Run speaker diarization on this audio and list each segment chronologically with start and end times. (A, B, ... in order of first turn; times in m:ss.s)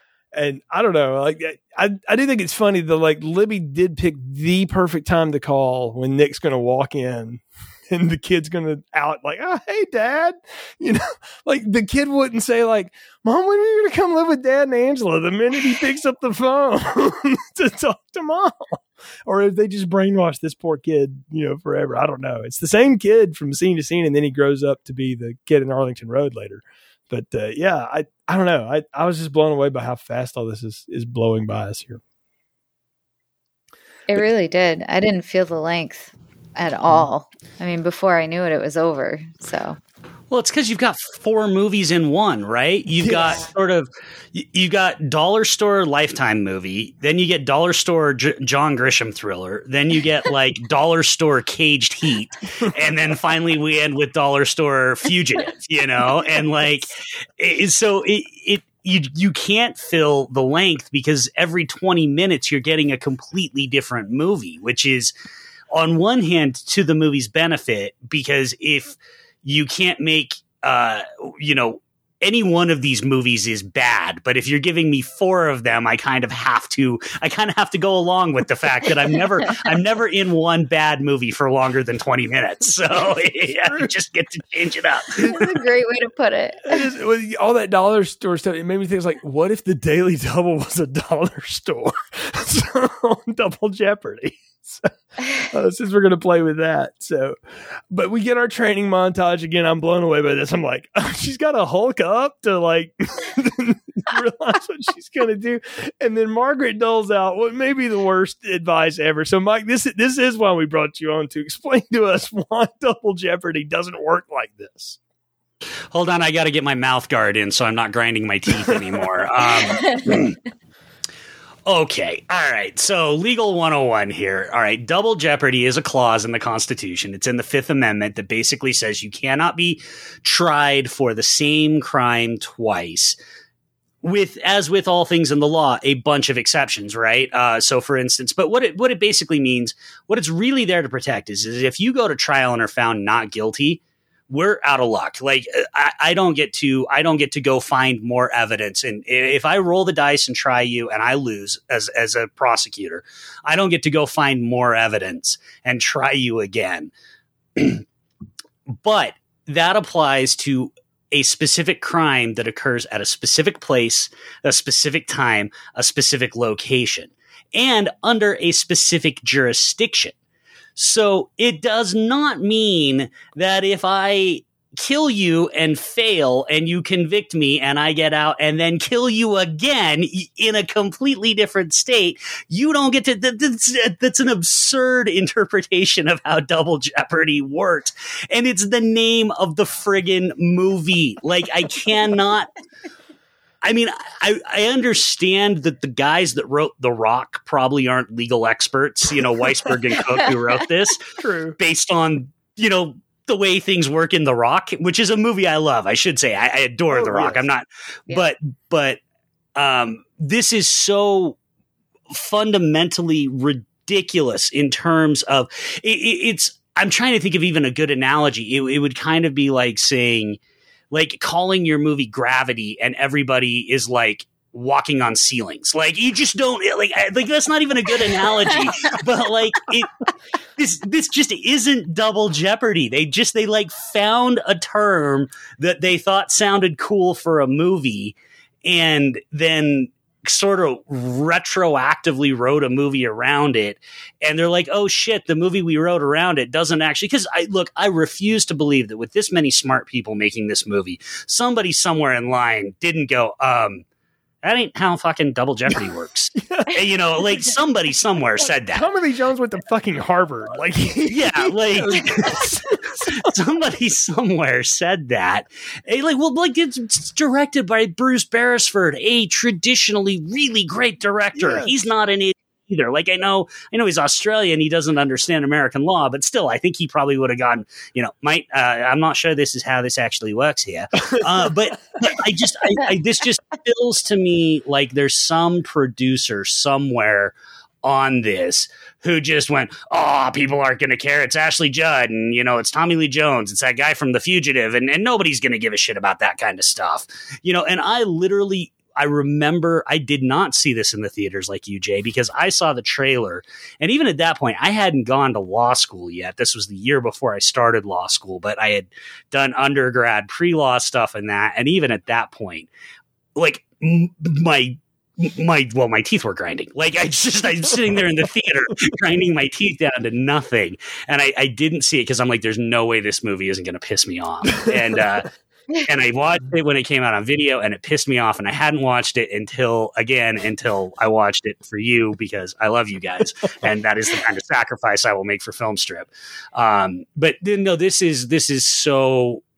0:00.3-0:32.0 A
0:34.1-0:39.8 B
0:40.3-1:05.1 C
0:43.0-0:43.4 A
1:05.7-1:25.3 C
1:23.7-1:23.9 A
1:25.2-1:25.5 A
1:25.3-1:26.9 B
1:26.6-1:34.9 A
1:35.5-1:37.4 A
1:37.9-1:55.0 A
1:55.9-2:00.4 C
2:01.7-2:13.2 C
2:14.0-2:36.9 C
2:37.6-2:37.8 C
2:38.7-2:50.1 C
2:50.8-3:12.5 C
3:13.6-3:29.0 C
3:21.2-3:21.6 A
3:26.9-3:27.4 A
3:29.6-3:31.4 C
3:32.1-3:40.4 C
3:40.9-3:50.0 C
3:50.6-4:13.8 C
4:14.4-4:18.9 C
4:16.4-4:16.8 A
4:18.4-4:23.3 A
4:21.1-5:12.7 C
4:31.4-4:31.7 A
4:41.1-4:41.5 A
5:13.4-5:25.3 C
5:25.8-5:39.4 C